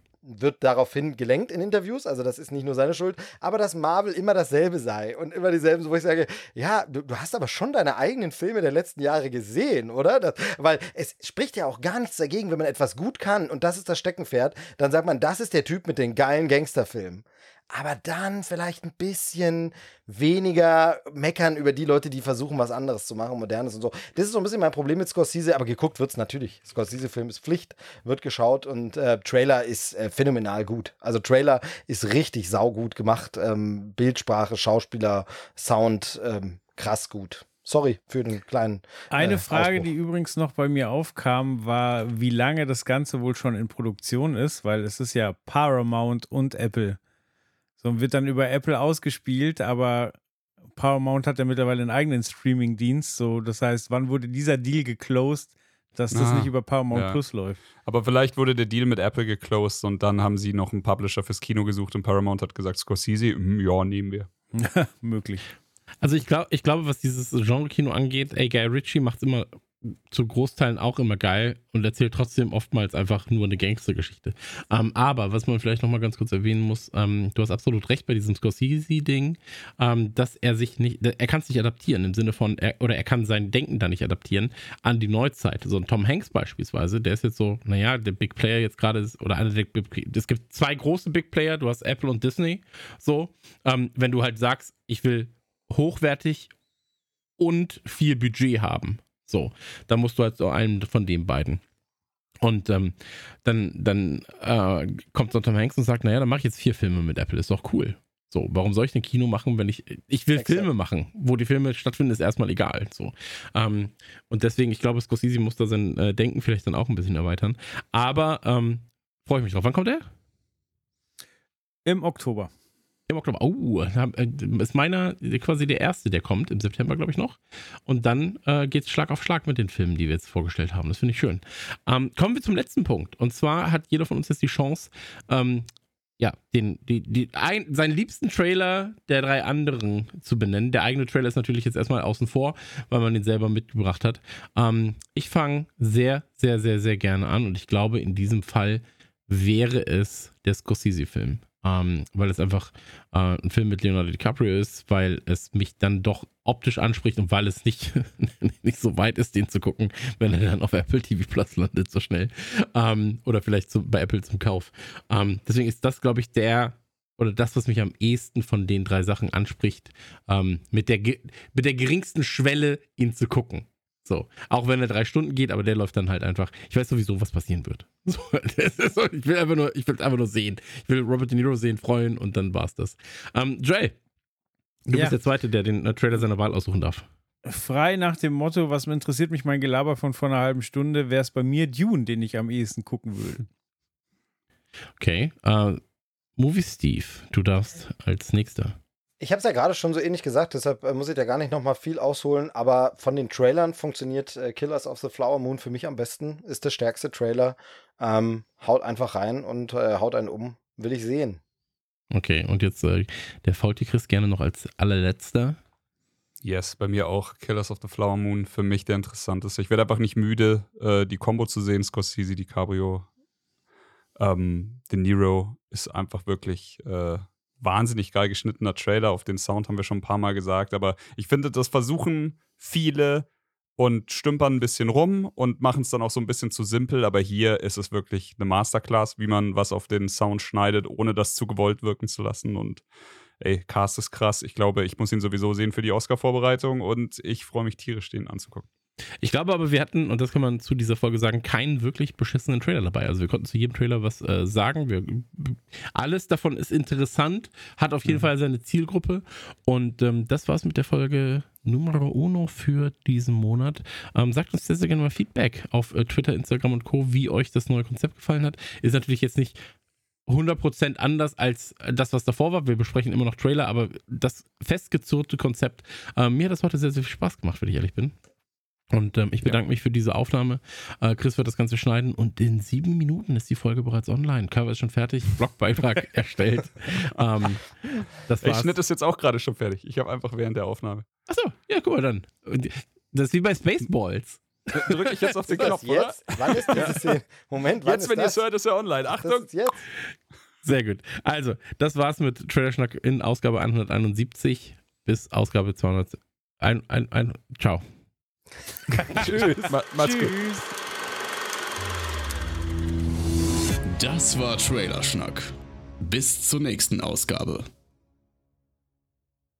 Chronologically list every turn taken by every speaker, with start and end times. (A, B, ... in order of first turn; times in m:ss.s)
0:00.2-0:39.9 A
0:39.1-0:47.0 B
0:47.8-0:50.2 B
0:50.8-0:57.6 B
0:56.1-0:57.2 C
0:57.8-1:04.3 C
1:04.5-1:05.4 B
1:06.0-1:36.5 D
1:37.4-1:41.6 D
1:42.4-2:00.1 D
1:50.4-1:50.7 A
2:01.8-2:02.5 B
2:03.1-3:04.0 D
3:04.9-3:05.2 B
3:04.9-3:07.1 D
3:07.4-3:13.4 B
3:15.0-3:15.8 D
3:16.4-3:18.8 D
3:19.2-3:31.4 A
3:32.1-3:35.6 D
3:36.4-3:43.1 C
3:44.2-3:53.2 C
3:53.8-4:02.8 C
4:03.4-4:08.7 C
4:09.2-4:29.6 D
4:30.3-4:38.1 D
4:38.9-4:48.8 D
4:48.4-4:51.0 C
4:51.3-4:55.8 D
4:54.7-4:57.1 C
4:55.5-4:58.4 A
4:56.7-4:57.0 D
4:57.8-4:59.5 C
4:59.2-4:59.8 A
5:00.6-5:07.8 D
5:09.0-5:09.4 B
5:09.0-5:10.4 C
5:10.0-5:10.7 B
5:13.9-5:15.5 E
5:16.0-5:17.6 E